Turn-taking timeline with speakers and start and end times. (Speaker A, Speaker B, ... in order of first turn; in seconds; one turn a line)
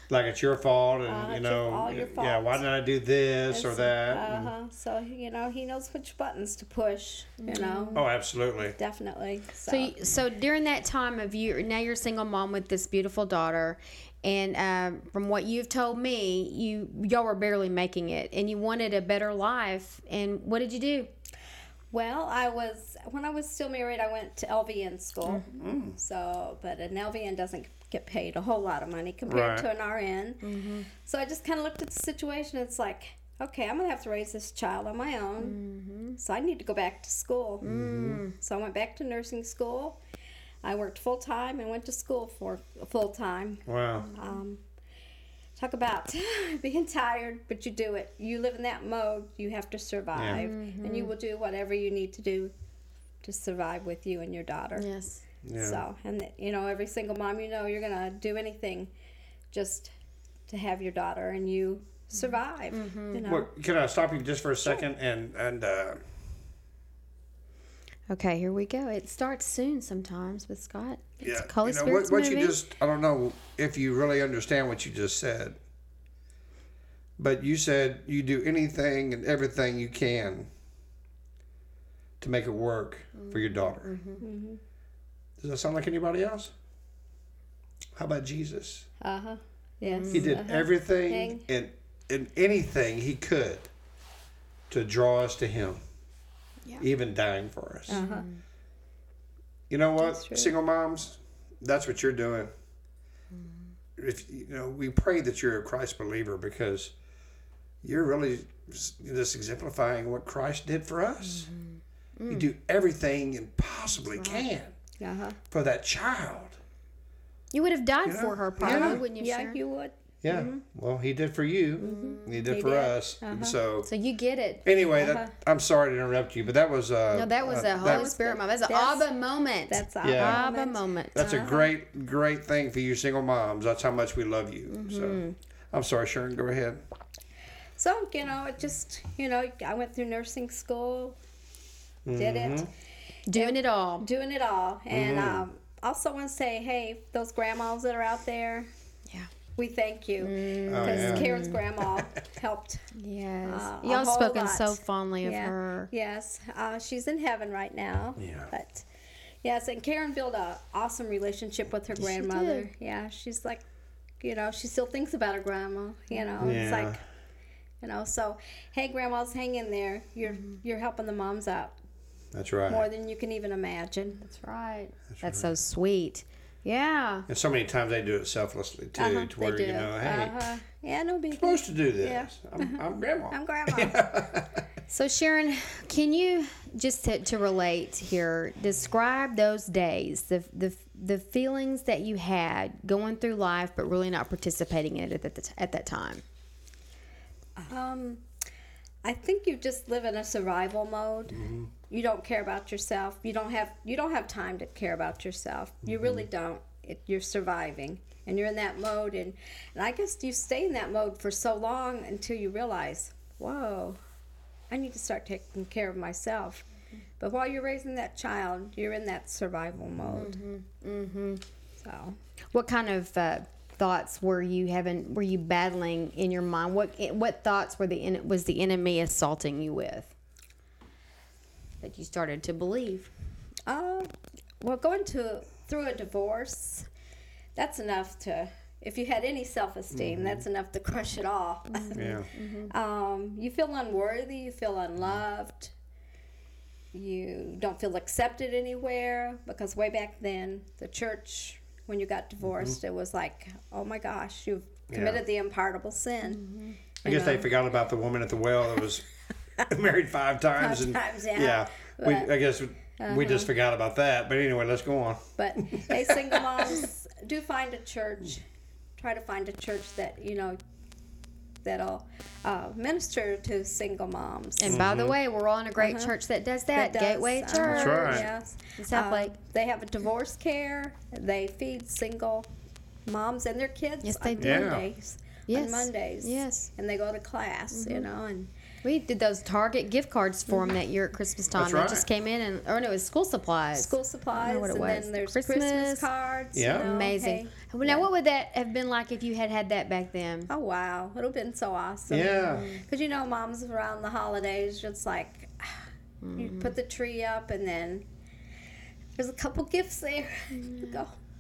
Speaker A: 0.1-4.5
Speaker B: 1.1-2.6
Speaker B: 3.5-8.1
Speaker C: 7.4-8.0
Speaker A: 7.9-8.8
Speaker B: 8.7-9.9
Speaker C: 9.7-21.1
Speaker B: 21.9-35.6
Speaker A: 25.6-26.0
Speaker A: 29.3-29.7
Speaker C: 30.4-30.9
Speaker C: 35.4-36.2
Speaker B: 36.2-37.6
Speaker A: 37.6-38.2
Speaker C: 37.6-38.3
Speaker B: 38.3-40.0
Speaker B: 40.6-44.6
Speaker A: 43.7-44.1
Speaker C: 44.0-44.3
Speaker B: 45.6-52.5
Speaker A: 50.1-50.4
Speaker C: 50.3-51.1
Speaker B: 53.2-54.9
Speaker C: 54.8-55.2
Speaker A: 55.5-55.8
Speaker B: 55.6-58.9
Speaker B: 59.5-59.9
Speaker B: 60.5-63.5
Speaker C: 62.7-63.2
Speaker A: 63.2-66.0
Speaker C: 68.1-72.6
Speaker A: 71.2-75.6
Speaker A: 77.2-80.5
Speaker A: 82.2-84.0
Speaker C: 83.2-84.2
Speaker B: 84.2-84.6
Speaker A: 85.4-86.5
Speaker A: 88.0-88.9
Speaker B: 89.0-91.4
Speaker C: 89.8-90.3
Speaker A: 90.1-93.7
Speaker A: 94.7-95.8
Speaker A: 96.8-98.0
Speaker B: 97.9-98.3
Speaker C: 97.9-98.4
Speaker A: 99.7-102.5
Speaker B: 100.0-100.5
Speaker A: 104.0-106.9
Speaker A: 107.8-111.5
Speaker C: 111.5-112.5
Speaker A: 112.3-114.7
Speaker C: 114.1-114.5
Speaker B: 115.0-115.4
Speaker A: 115.5-116.6
Speaker C: 117.5-119.6
Speaker A: 118.0-119.0
Speaker B: 118.6-120.6
Speaker A: 120.2-123.9
Speaker C: 121.8-122.4
Speaker B: 121.8-123.6
Speaker C: 123.8-124.6
Speaker A: 124.7-128.1
Speaker B: 125.0-125.3
Speaker C: 127.1-131.2
Speaker B: 127.7-129.1
Speaker B: 129.7-131.7
Speaker A: 130.0-130.4
Speaker A: 131.2-135.2
Speaker C: 134.7-135.3
Speaker A: 135.7-136.8
Speaker B: 137.8-141.2
Speaker A: 142.1-142.7
Speaker B: 142.1-142.7
Speaker C: 143.3-144.1
Speaker B: 143.3-148.7
Speaker A: 144.9-145.5
Speaker B: 149.6-152.9
Speaker C: 150.2-151.6
Speaker A: 150.7-151.3
Speaker C: 152.9-155.9
Speaker B: 153.4-158.8
Speaker A: 158.2-158.5
Speaker B: 159.4-163.6
Speaker C: 162.0-162.7
Speaker B: 164.2-167.0
Speaker C: 166.2-166.6
Speaker A: 166.4-167.0
Speaker B: 167.8-171.8
Speaker A: 172.3-172.9
Speaker B: 172.7-174.2
Speaker C: 174.2-177.3
Speaker A: 175.2-175.5
Speaker A: 177.3-180.5
Speaker B: 179.0-184.0
Speaker A: 181.4-184.7
Speaker C: 184.9-196.2
Speaker B: 197.6-198.2
Speaker B: 199.0-214.0
Speaker A: 201.3-201.7
Speaker A: 205.9-206.2
Speaker B: 214.7-216.7
Speaker B: 217.2-220.3
Speaker C: 220.1-221.4
Speaker B: 221.8-222.2
Speaker C: 222.5-230.1
Speaker C: 231.8-233.1
Speaker B: 233.7-236.9
Speaker B: 237.6-245.7
Speaker A: 239.9-240.4
Speaker C: 241.7-242.7
Speaker A: 241.9-242.3
Speaker B: 246.9-256.4
Speaker A: 252.5-252.8
Speaker A: 254.9-255.2
Speaker C: 256.3-256.8
Speaker B: 257.0-257.5
Speaker A: 257.0-259.1
Speaker A: 259.6-266.7
Speaker B: 260.6-262.3
Speaker B: 263.0-263.5
Speaker B: 265.4-268.4
Speaker B: 269.0-270.6
Speaker B: 271.6-274.8
Speaker C: 274.6-279.3
Speaker A: 274.7-275.2
Speaker B: 275.8-276.1
Speaker B: 276.7-282.5
Speaker A: 277.6-278.3
Speaker B: 283.1-288.5
Speaker C: 284.0-284.7
Speaker A: 284.4-284.9
Speaker C: 285.5-286.7
Speaker C: 287.7-288.1
Speaker C: 288.8-296.1
Speaker B: 290.5-290.8
Speaker A: 291.6-292.1
Speaker B: 293.8-298.1
Speaker A: 296.5-296.9
Speaker C: 296.7-300.5
Speaker B: 300.5-305.9
Speaker A: 302.1-302.7
Speaker C: 302.5-302.8
Speaker C: 306.2-306.7
Speaker B: 306.4-308.1
Speaker B: 309.2-311.1
Speaker C: 310.6-311.0